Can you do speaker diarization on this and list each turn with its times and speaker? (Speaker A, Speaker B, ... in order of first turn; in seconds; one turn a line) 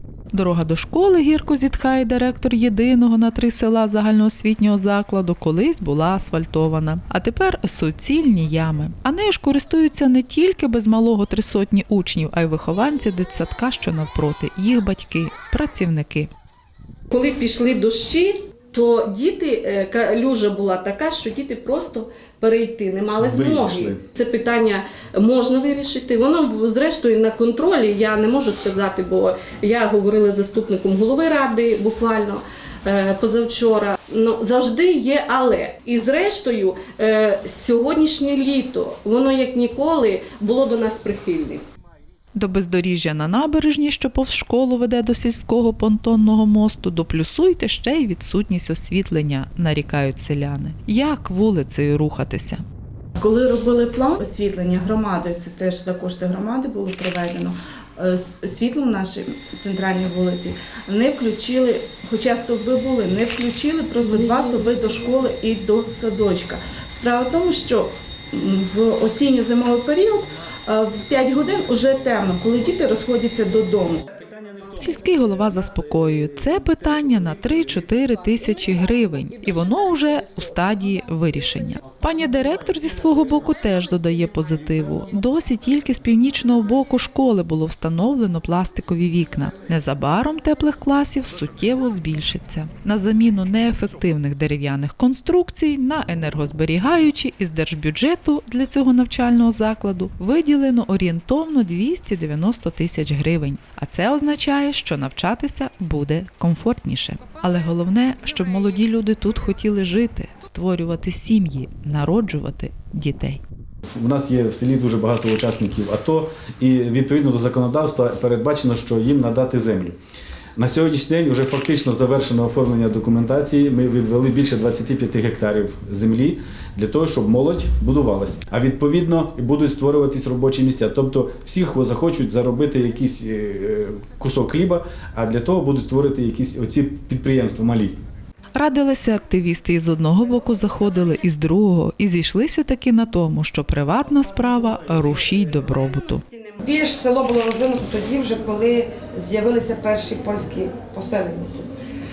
Speaker A: 0.3-16.3
Speaker B: 17.1-41.6
Speaker C: 23.2-24.0
Speaker A: 42.3-52.6
Speaker D: 53.2-74.0
Speaker B: 64.0-64.7
Speaker A: 74.7-113.4
Speaker C: 113.9-120.0
Speaker C: 120.6-138.0
Speaker A: 138.6-146.2
Speaker E: 146.6-151.7